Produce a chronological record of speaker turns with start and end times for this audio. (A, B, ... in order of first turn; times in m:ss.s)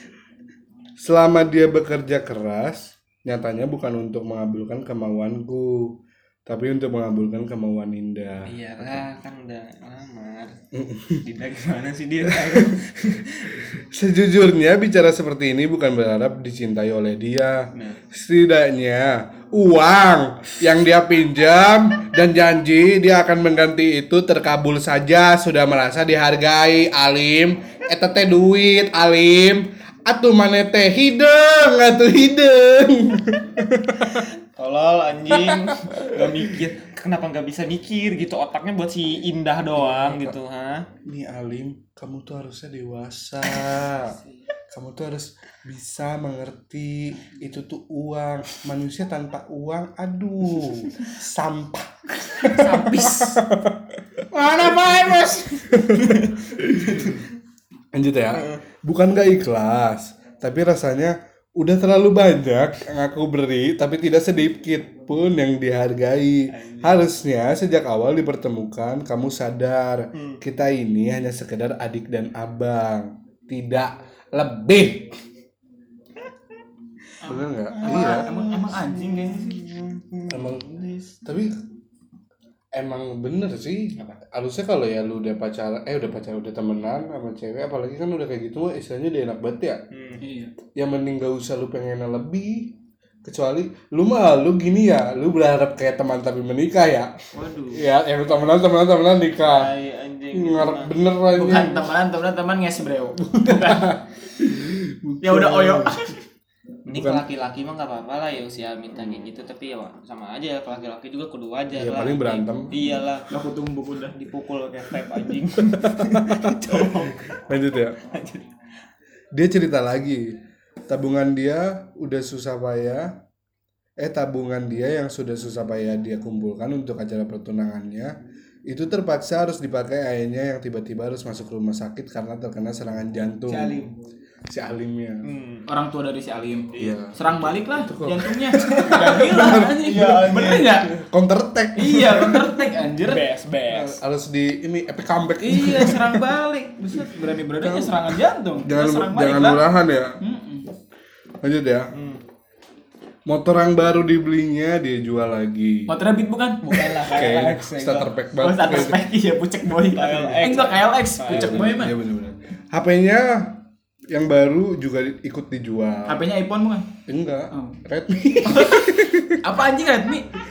0:01.0-0:09.1 A
0:08.5-0:10.6 B
0:10.7-0:11.2 A
0:11.2-0:13.7 B
0:12.2-0:12.9 A
0:13.6-0:34.3 A
0:17.7-0:18.0 B
0:34.1-0:40.9 B
0:35.3-0:36.5 A
0:39.8-0:40.4 A
0:41.1-0:44.2 A
0:43.5-0:44.1 B
0:44.7-0:57.2 A
0:52.4-0:53.4 C
0:54.4-0:56.4 B
0:57.9-1:15.2 A
0:58.4-0:58.6 B
1:06.5-1:07.1 B
1:10.2-1:10.4 B
1:17.2-1:19.6 C
1:17.3-1:18.3 A
1:17.7-1:21.1 B
1:20.3-1:20.7 A
1:21.2-1:21.6 A
1:22.8-1:29.8 A
1:29.9-1:30.2 B
1:30.2-1:30.5 C
1:30.8-1:37.2 A
1:37.3-1:37.8 C
1:37.7-1:39.7 A
1:39.4-1:41.0 B
1:40.3-1:41.9 A
1:41.4-1:43.9 C
1:43.2-1:46.0 A
1:45.2-1:46.2 C
1:46.9-1:47.2 A
1:46.9-1:53.3 B
1:51.8-1:52.7 A
1:53.3-1:54.2 C
1:54.1-1:57.4 B
1:55.6-1:58.0 A
1:58.1-1:58.4 B
1:59.3-2:00.4 A
2:00.9-2:03.2 A
2:04.0-2:08.2 A
2:08.7-2:13.8 A
2:13.5-2:13.9 C
2:14.5-2:15.3 A
2:15.2-2:15.7 B
2:15.7-2:20.9 C
2:16.7-2:17.0 B
2:16.8-2:17.2 A
2:17.8-2:19.9 A
2:18.7-2:20.9 B
2:20.9-2:22.6 A
2:21.8-2:23.3 C
2:23.0-2:24.0 B
2:23.7-2:26.2 A
2:25.4-2:29.6 C
2:27.6-2:30.2 A
2:30.2-2:30.7 C
2:31.4-2:31.9 A
2:31.9-2:32.2 B
2:33.3-2:35.9 A
2:35.9-2:36.9 C
2:36.6-2:38.1 B
2:37.0-2:39.0 A
2:38.4-2:42.0 C
2:39.9-2:41.8 B
2:41.3-2:46.2 A
2:46.1-2:46.9 C
2:47.1-2:49.4 A
2:47.5-2:47.8 C
2:48.5-2:50.3 C